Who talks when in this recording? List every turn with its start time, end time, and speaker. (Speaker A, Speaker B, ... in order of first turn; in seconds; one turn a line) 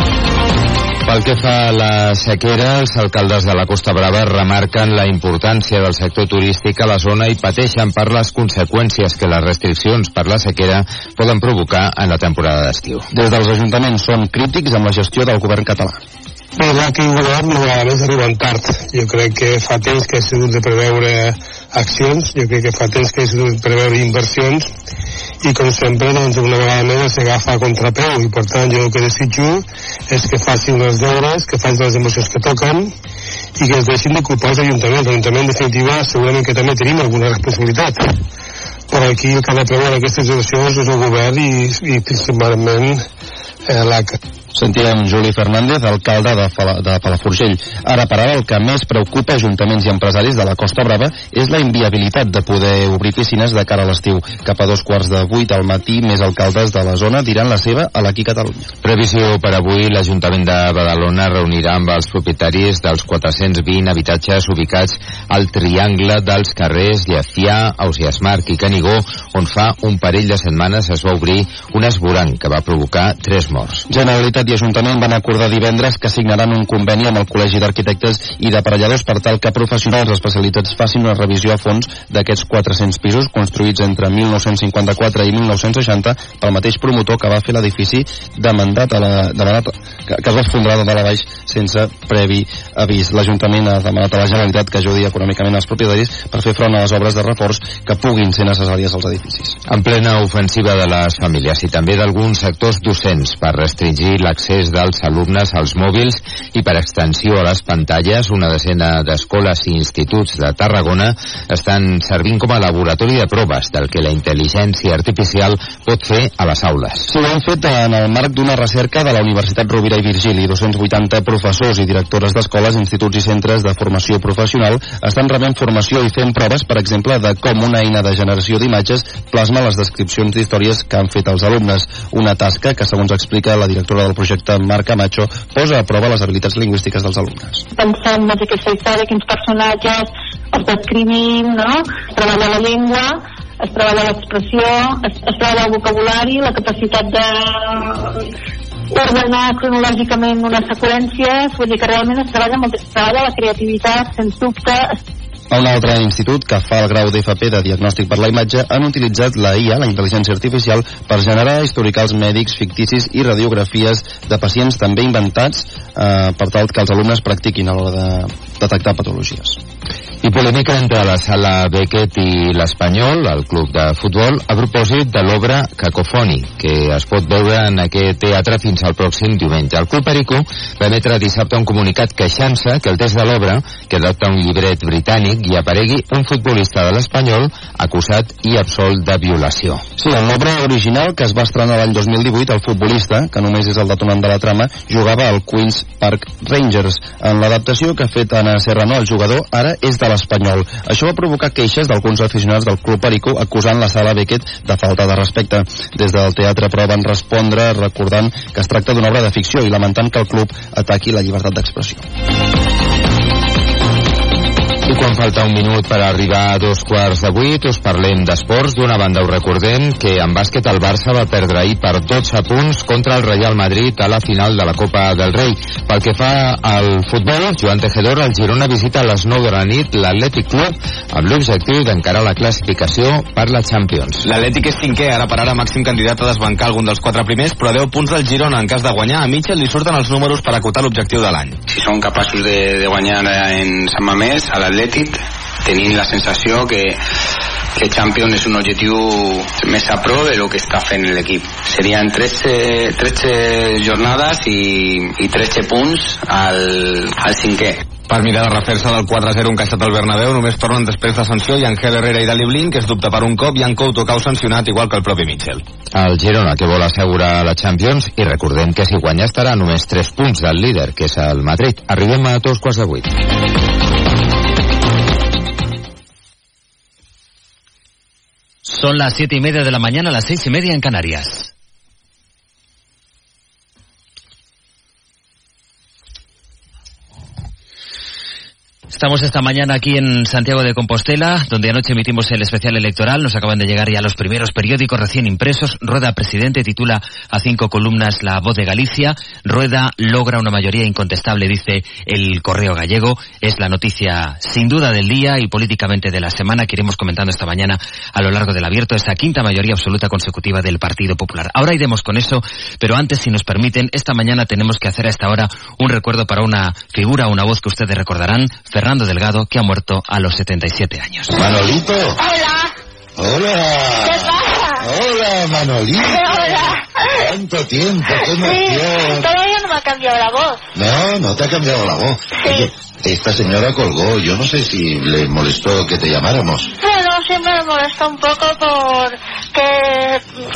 Speaker A: 1.1-13.1
Speaker B: 13.1-16.0
Speaker C: 16.6-24.7
Speaker C: 25.4-32.9
Speaker C: 33.6-38.0
Speaker C: 38.9-43.0
Speaker C: 43.7-44.2
Speaker B: 44.5-58.7
Speaker A: 58.8-73.8
Speaker B: 73.9-99.6
Speaker A: 99.7-117.1
Speaker B: 117.1-137.6
Speaker D: 137.8-147.3
Speaker D: 148.9-154.8
Speaker B: 155.5-169.6
Speaker A: 170.2-189.8
Speaker B: 190.0-212.0
Speaker A: 214.9-234.3
Speaker E: 234.3-241.6
Speaker F: 241.7-247.0
Speaker F: 247.8-257.8
Speaker E: 258.1-265.6
Speaker A: 265.9-273.2
Speaker G: 278.7-281.5
Speaker G: 288.9-321.4
Speaker H: 321.4-322.2
Speaker I: 322.1-322.7
Speaker H: 323.2-329.3
Speaker I: 324.0-324.9
Speaker I: 326.0-327.3
Speaker I: 328.1-330.6
Speaker H: 330.8-336.7
Speaker I: 332.4-332.7
Speaker I: 336.8-340.2